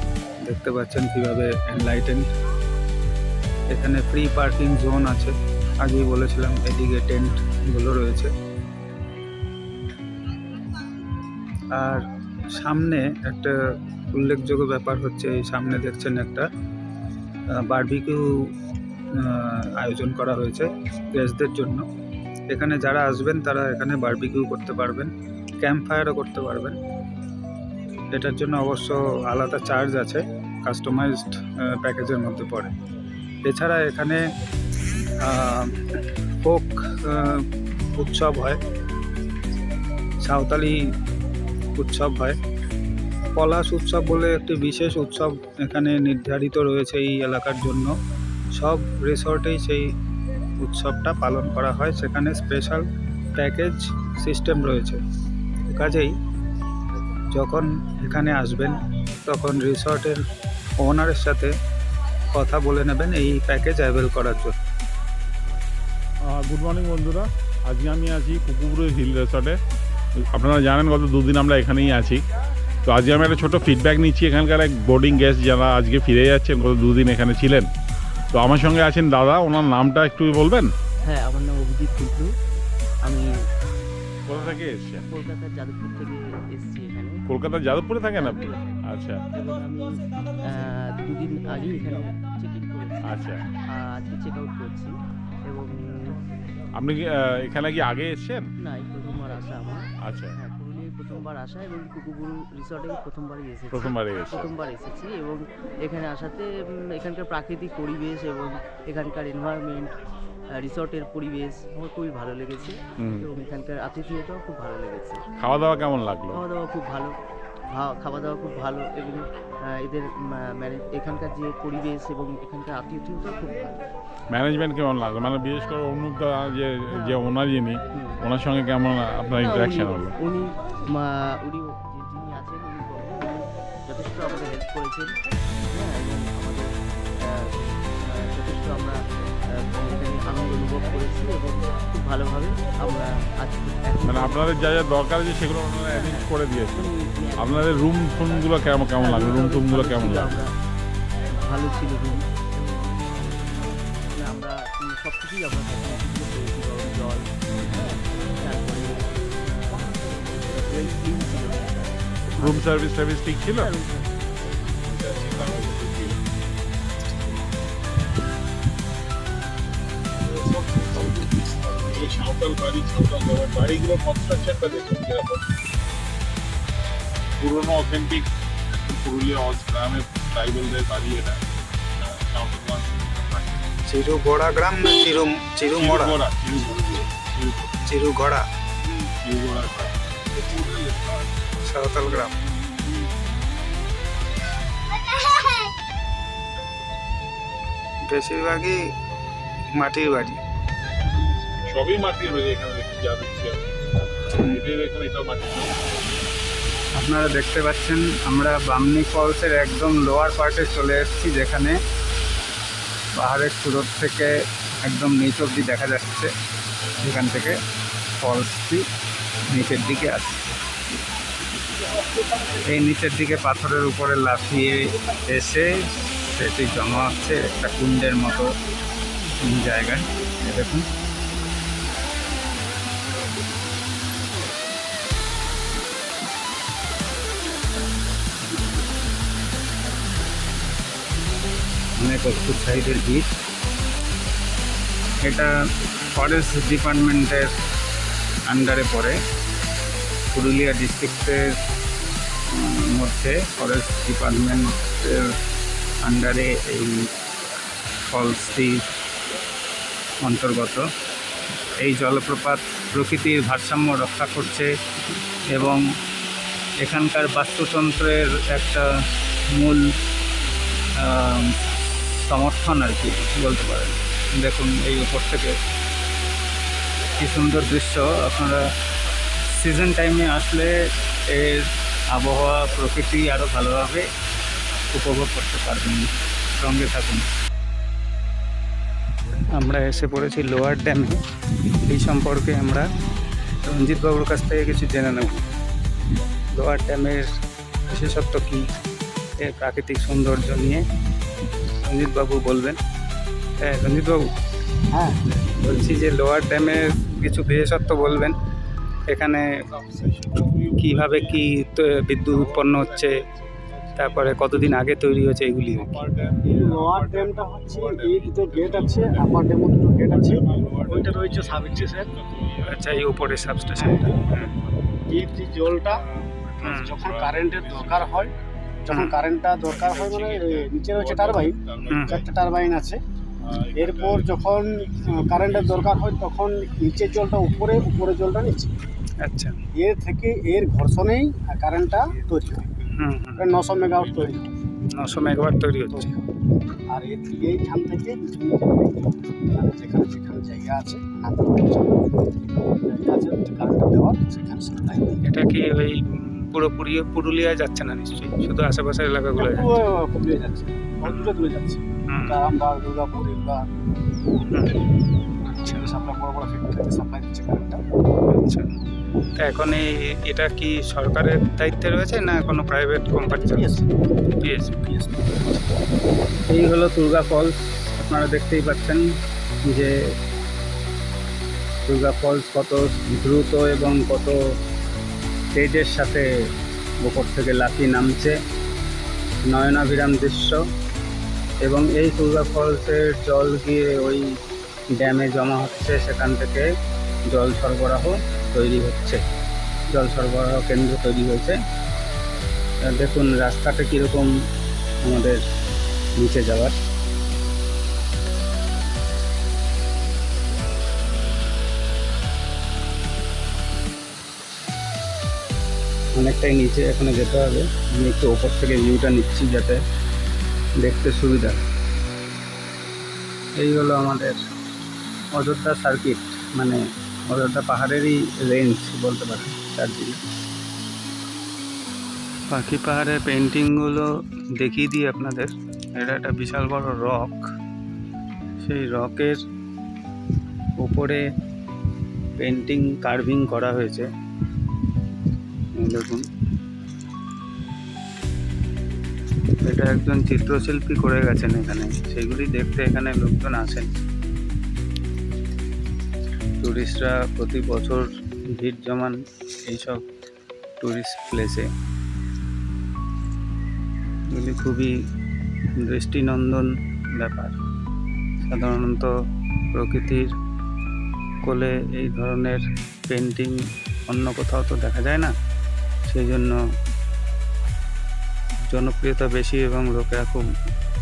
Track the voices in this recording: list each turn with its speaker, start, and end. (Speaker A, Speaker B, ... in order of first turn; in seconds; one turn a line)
Speaker A: 0.4-2.3
Speaker A: 3.7-8.3
Speaker A: 11.7-13.6
Speaker A: 14.1-16.5
Speaker A: 17.5-18.3
Speaker A: 19.1-21.9
Speaker A: 22.5-26.8
Speaker A: 28.1-32.7
Speaker A: 33.4-34.2
Speaker A: 35.2-35.8
Speaker A: 36.4-38.6
Speaker A: 40.2-40.9
Speaker A: 41.8-42.4
Speaker A: 43.4-48.0
Speaker A: 48.5-49.9
Speaker A: 50.6-55.0
Speaker A: 55.6-56.2
Speaker A: 57.3-60.2
Speaker A: 60.8-61.5
Speaker A: 62.3-64.6
Speaker B: 66.2-69.6
Speaker B: 70.3-72.2
Speaker B: 72.9-77.7
Speaker B: 78.3-80.7
Speaker C: 81.1-82.3
Speaker C: 83.0-83.3
Speaker B: 84.3-85.1
Speaker C: 85.1-87.2
Speaker B: 87.3-89.2
Speaker C: 88.1-94.9
Speaker B: 93.0-93.4
Speaker C: 95.5-96.2
Speaker B: 96.8-98.5
Speaker C: 98.6-109.9
Speaker B: 100.0-100.4
Speaker B: 103.7-104.5
Speaker C: 110.5-115.2
Speaker B: 113.0-113.3
Speaker B: 115.4-116.4
Speaker C: 116.3-117.1
Speaker C: 117.7-119.2
Speaker C: 119.8-123.9
Speaker B: 124.3-130.2
Speaker C: 126.9-127.3
Speaker C: 127.9-128.2
Speaker C: 129.4-135.1
Speaker C: 135.7-136.7
Speaker C: 137.2-139.0
Speaker C: 139.5-144.6
Speaker B: 144.0-150.4
Speaker C: 145.9-150.5
Speaker C: 151.3-162.7
Speaker B: 162.3-163.7
Speaker C: 163.6-165.8
Speaker B: 164.8-166.2
Speaker B: 170.2-175.4
Speaker B: 177.4-178.3
Speaker B: 178.8-181.4
Speaker B: 182.0-183.6
Speaker A: 183.9-187.0
Speaker B: 185.8-187.7
Speaker A: 187.8-188.5
Speaker B: 189.2-191.1
Speaker A: 191.6-192.4
Speaker A: 198.1-198.8
Speaker A: 199.7-200.4
Speaker B: 201.6-203.7
Speaker B: 204.4-205.8
Speaker A: 207.0-211.8
Speaker A: 213.2-216.3
Speaker A: 217.0-217.6
Speaker A: 218.2-218.9
Speaker A: 219.5-220.4
Speaker A: 222.5-228.5
Speaker A: 229.4-230.9
Speaker A: 242.0-243.2
Speaker A: 245.2-245.5
Speaker A: 246.1-247.5
Speaker A: 248.5-249.2
Speaker A: 250.3-251.4
Speaker A: 252.5-255.3
Speaker A: 256.0-257.1
Speaker A: 258.1-258.8
Speaker A: 260.2-260.9
Speaker A: 261.8-264.7
Speaker A: 265.5-265.8
Speaker A: 266.8-268.9
Speaker A: 269.5-269.9
Speaker A: 271.0-271.5
Speaker A: 272.2-275.5
Speaker A: 277.1-278.6
Speaker A: 279.4-280.8
Speaker A: 281.3-284.1
Speaker A: 284.9-287.3
Speaker A: 289.5-292.9
Speaker A: 293.6-295.4
Speaker A: 296.5-297.3
Speaker A: 297.9-298.7
Speaker A: 299.4-300.9
Speaker A: 301.8-302.8
Speaker A: 303.6-304.3
Speaker A: 305.3-308.4
Speaker A: 309.1-309.5
Speaker B: 309.8-310.6
Speaker A: 310.8-313.2
Speaker A: 313.9-316.0
Speaker B: 316.0-316.3
Speaker D: 316.3-322.1
Speaker B: 320.5-321.0
Speaker B: 322.2-322.7
Speaker A: 322.6-324.5
Speaker D: 323.8-324.1
Speaker D: 325.1-326.0
Speaker A: 326.6-327.0
Speaker D: 326.6-328.3
Speaker D: 328.8-333.0
Speaker A: 328.9-329.2
Speaker B: 330.0-330.3
Speaker B: 331.7-332.0
Speaker A: 331.9-332.2
Speaker D: 333.7-338.8
Speaker A: 339.2-339.6
Speaker D: 339.7-342.8
Speaker A: 342.9-343.5
Speaker D: 343.4-344.5
Speaker A: 344.9-346.1
Speaker D: 345.9-346.2
Speaker D: 346.9-355.2
Speaker A: 355.2-359.8
Speaker D: 359.3-363.7
Speaker A: 361.0-361.3
Speaker A: 362.1-362.4
Speaker A: 364.5-364.9
Speaker A: 365.4-365.8
Speaker D: 365.6-367.8
Speaker A: 368.3-368.7
Speaker A: 369.4-373.8
Speaker D: 373.2-373.9
Speaker A: 374.4-374.8
Speaker D: 374.8-375.4
Speaker A: 376.4-379.1
Speaker A: 379.6-379.9
Speaker A: 381.9-384.4
Speaker A: 385.5-386.3
Speaker A: 387.0-388.4
Speaker A: 389.4-390.6
Speaker A: 391.6-394.3
Speaker A: 394.9-396.7
Speaker A: 397.3-399.2
Speaker A: 399.9-401.6
Speaker A: 402.8-404.4
Speaker A: 405.0-405.4
Speaker A: 406.1-406.8
Speaker A: 416.1-419.8
Speaker A: 420.8-421.6
Speaker A: 423.6-424.4
Speaker A: 425.3-430.2
Speaker A: 432.5-437.4
Speaker A: 438.6-439.4
Speaker A: 440.8-441.2
Speaker A: 442.4-444.1
Speaker A: 445.8-446.3
Speaker A: 449.6-453.9
Speaker A: 456.6-460.0
Speaker A: 460.8-461.7
Speaker A: 464.3-465.0
Speaker A: 465.7-467.6
Speaker A: 468.4-469.1
Speaker A: 469.7-470.3
Speaker A: 471.4-475.4
Speaker A: 476.1-476.6
Speaker A: 478.6-480.5